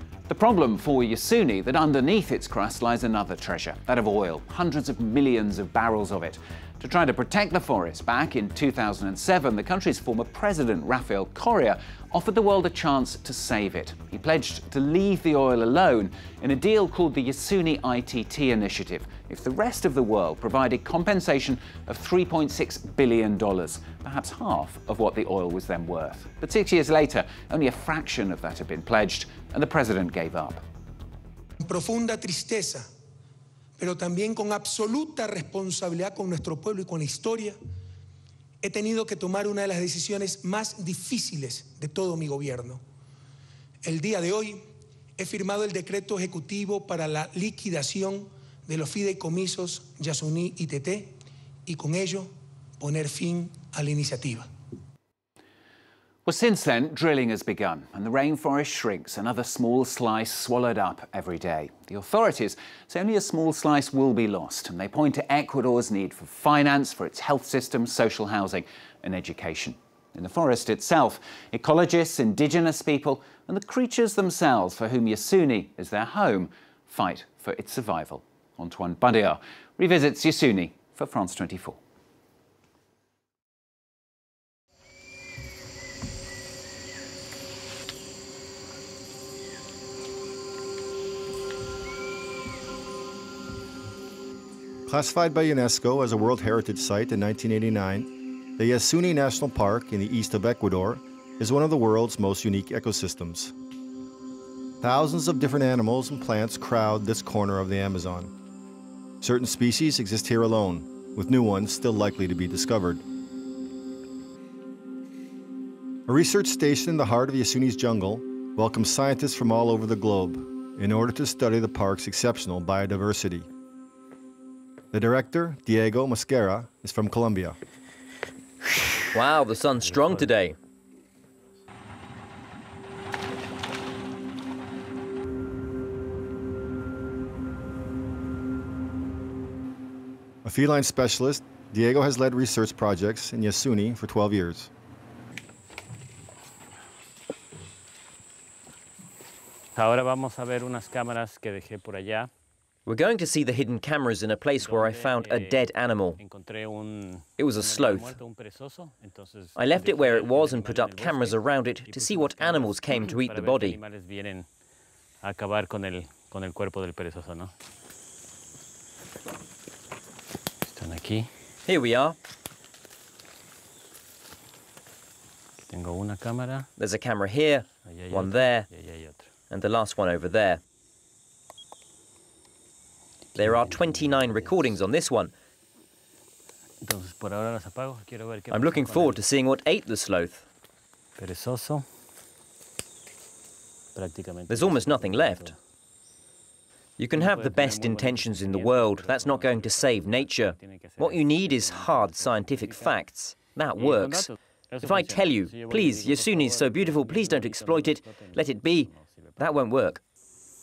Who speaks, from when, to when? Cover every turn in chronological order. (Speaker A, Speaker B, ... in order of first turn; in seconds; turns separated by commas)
Speaker A: 0.3-30.6, Speaker B: 31.6-32.9, Speaker B: 33.8-37.6, Speaker B: 38.6-42.8, Speaker B: 43.8-44.6, Speaker B: 45.2-54.5, Speaker A: 56.3-81.8, Speaker C: 94.9-103.5, Speaker C: 104.8-108.3, Speaker C: 109.2-113.0, Speaker C: 116.1-123.5, Speaker C: 124.9-127.6, Speaker D: 129.1-130.6, Speaker E: 129.7-130.4, Speaker C: 140.4-144.7, Speaker E: 149.8-152.3, Speaker D: 152.9-156.2, Speaker E: 154.6-164.5, Speaker D: 157.4-158.2, Speaker D: 159.6-163.8, Speaker E: 165.2-167.5, Speaker E: 170.7-171.3, Speaker D: 171.7-172.2, Speaker E: 175.7-176.7, Speaker D: 176.8-178.7, Speaker E: 177.8-179.3, Speaker D: 179.5-180.6, Speaker E: 183.3-184.8, Speaker D: 183.4-185.3, Speaker E: 186.8-189.3, Speaker D: 188.5-190.5, Speaker E: 191.2-191.9, Speaker E: 193.9-195.6, Speaker D: 194.5-195.5, Speaker D: 197.0-204.3, Speaker E: 197.1-203.1, Speaker E: 203.6-209.8, Speaker D: 204.8-210.0